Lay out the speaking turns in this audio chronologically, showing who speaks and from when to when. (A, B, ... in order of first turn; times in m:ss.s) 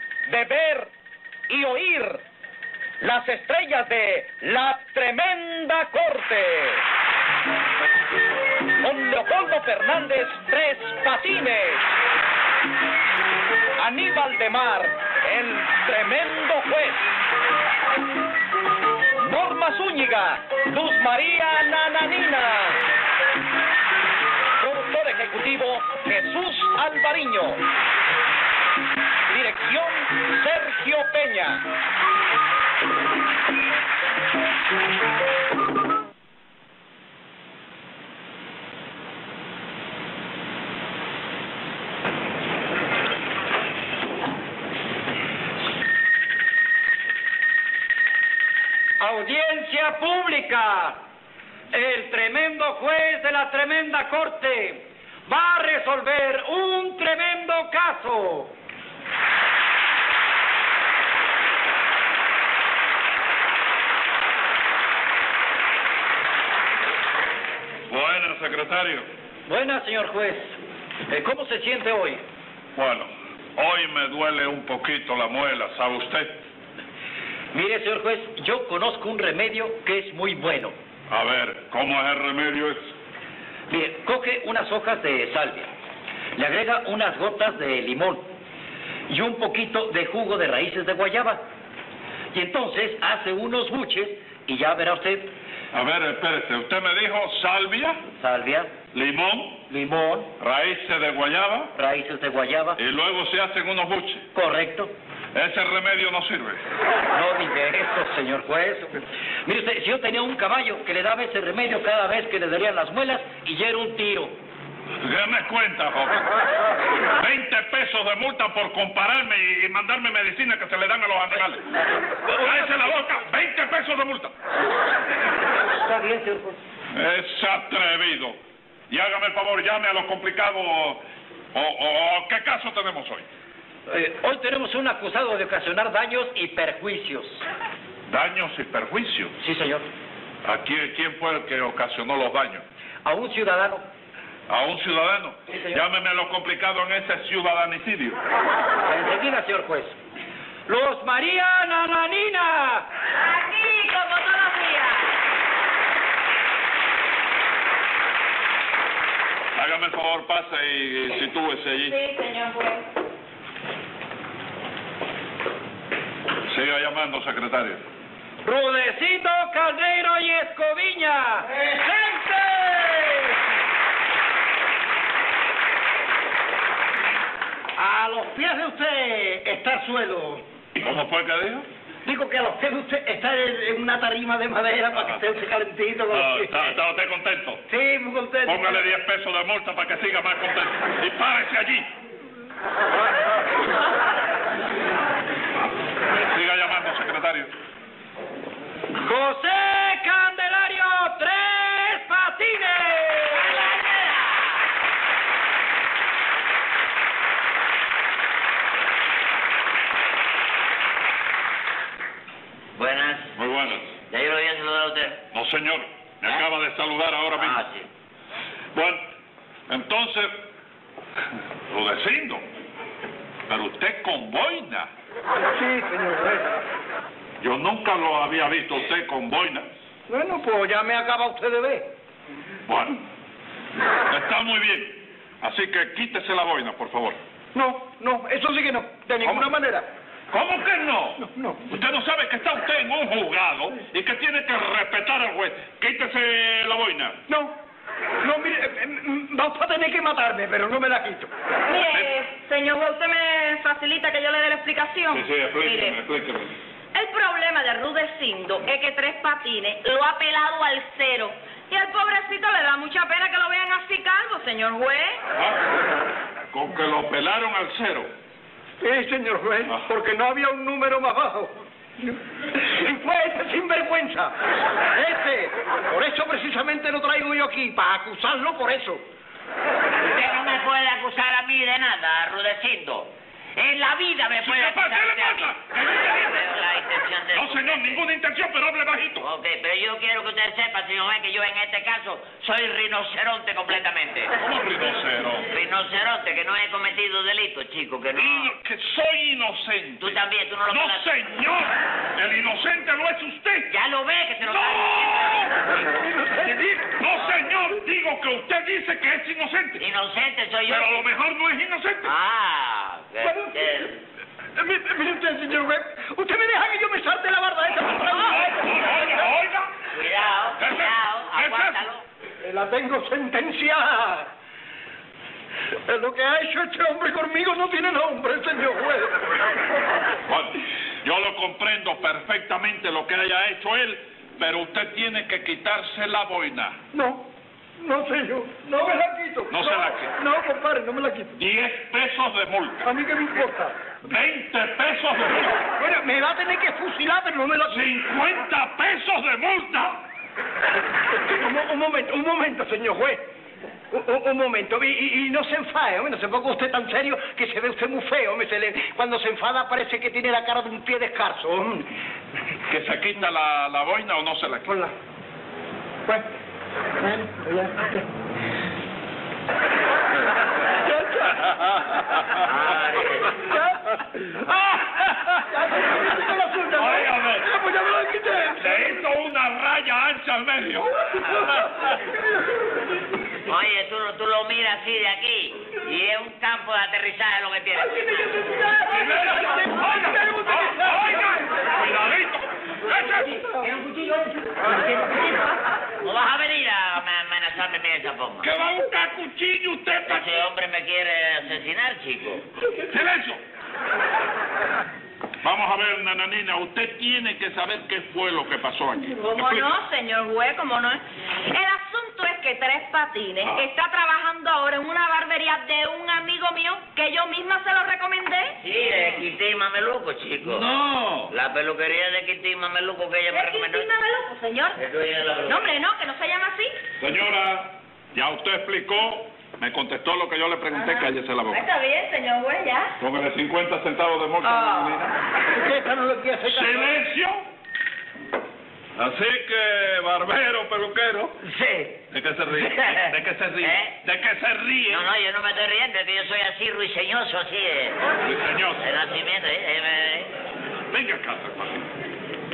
0:00.2-0:00.9 A
0:01.5-0:02.2 A
0:03.0-0:06.8 A
0:08.8-0:11.9 A
0:13.8-0:17.1 A
0:19.2-0:22.8 A
0:24.6-0:27.6 A
0:29.3-0:31.6 A
0:49.0-0:51.0 B
0:51.7-0:58.5 B
1:07.9-1:09.1 C
1:09.4-1:12.2 B
1:12.7-1:16.4 C
1:17.5-1:20.7 B
1:21.1-1:22.9 C
1:23.7-1:25.7 B
1:26.4-1:28.3 B
1:29.1-1:31.4 B
1:32.3-1:35.3 B
1:35.7-1:38.0 C
1:38.2-1:38.7 B
1:38.9-1:39.6 C
1:39.7-1:40.3 B
1:40.4-1:41.7 C
1:41.7-1:42.8 B
1:42.8-1:44.2 C
1:44.3-1:44.9 B
1:45.3-1:46.6 C
1:47.1-1:54.4 B
1:55.0-1:56.2 C
1:57.1-2:01.6 C
2:02.3-2:04.3 C
2:02.4-2:02.9 B
2:05.7-2:06.6 B
2:06.9-2:08.4 C
2:08.9-2:11.0 C
2:11.5-2:13.2 C
2:13.9-2:17.4 B
2:18.1-2:19.3 C
2:19.4-2:19.9 B
2:20.4-2:22.6 C
2:23.0-2:23.8 B
2:24.5-2:28.2 C
2:28.8-2:30.0 B
2:30.7-2:32.8 B
2:33.2-2:35.1 D
2:39.5-2:41.9 C
2:41.8-2:42.8 D
2:46.5-2:47.8 C
2:48.4-2:51.5 B
2:51.4-2:53.3 E
2:57.7-3:00.4 E
3:00.7-3:01.6 C
3:02.0-3:06.7 E
3:06.1-3:07.6 C
3:07.7-3:08.8 E
3:08.4-3:11.9 C
3:16.2-3:17.5 C
3:19.0-3:23.4 B
3:23.3-3:24.4 F
3:32.8-3:33.4 F
3:33.4-3:33.8 C
3:33.9-3:35.2 F
3:35.3-3:37.6 C
3:37.3-3:37.9 F
3:38.7-3:39.0 C
3:39.7-3:40.4 C
3:41.7-3:42.4 C
3:43.5-3:44.9 C
3:45.5-3:46.5 E
3:47.4-3:49.7 C
3:50.1-3:51.9 E
3:52.7-3:53.0 C
3:54.1-3:57.2 C
3:57.5-3:59.9 E
4:00.3-4:07.2 C
4:01.2-4:01.6 E
4:07.3-4:07.5 E
4:08.2-4:11.3 E
4:11.6-4:16.0 D
4:15.1-4:16.5 C
4:16.9-4:25.2 D
4:25.4-4:25.7 C
4:26.5-4:28.1 C
4:28.8-4:34.3 E
4:34.9-4:39.0 E
4:40.0-4:48.0 F
4:44.4-4:46.5 C
4:47.3-4:49.2 C
4:49.2-4:54.3 F
4:54.4-4:55.4 C
4:55.5-4:58.5 F
4:58.1-5:00.2 C
5:00.0-5:01.0 F
5:00.7-5:03.7 C
5:03.7-5:05.8 F
5:04.4-5:05.6 C
5:06.2-5:06.4 E
5:06.2-5:09.8 C
5:09.8-5:11.0 F
5:10.7-5:12.1 C
5:12.0-5:14.0 F
5:13.2-5:13.9 E
5:14.6-5:19.0 E
5:18.0-5:19.7 C
5:19.9-5:22.0 F
5:20.6-5:21.8 C
5:22.4-5:24.3 E
5:25.8-5:29.4 E
5:30.3-5:36.8 C
5:36.9-5:37.3 E
5:37.8-5:41.3 E
5:39.5-5:40.1 C
5:41.4-5:42.8 C
5:42.8-5:43.8 E
5:44.0-5:45.6 C
5:45.8-5:47.8 E
5:47.7-5:50.0 C
5:51.1-5:53.2 E
5:53.9-6:01.9 E
6:02.7-6:04.9 C
6:07.0-6:08.0 E
6:11.3-6:12.5 C
6:12.4-6:13.5 F
6:14.4-6:15.4 C
6:15.5-6:18.9 E
6:16.7-6:17.5 C
6:18.6-6:21.9 C
6:21.2-6:21.7 E
6:23.4-6:28.4 F
6:28.0-6:31.4 E
6:28.8-6:33.5 C
6:36.0-6:38.5 F
6:38.4-6:40.5 C
6:40.0-6:42.4 F
6:42.8-6:43.4 C
6:45.4-6:49.6 C
6:49.2-6:58.6 D
6:58.6-7:00.7 F
7:00.4-7:01.3 C
7:01.3-7:03.8 F
7:03.3-7:04.8 D
7:04.8-7:05.7 F
7:05.4-7:06.7 D
7:07.0-7:11.6 C
7:10.7-7:12.9 D
7:13.0-7:15.1 C
7:14.4-7:15.1 D
7:15.5-7:17.0 E
7:16.5-7:17.4 C
7:19.0-7:21.4 C
7:22.1-7:25.1 C
7:22.5-7:24.0 F
7:24.9-7:28.0 F
7:28.2-7:28.9 C
7:28.8-7:30.3 F
7:30.9-7:31.9 C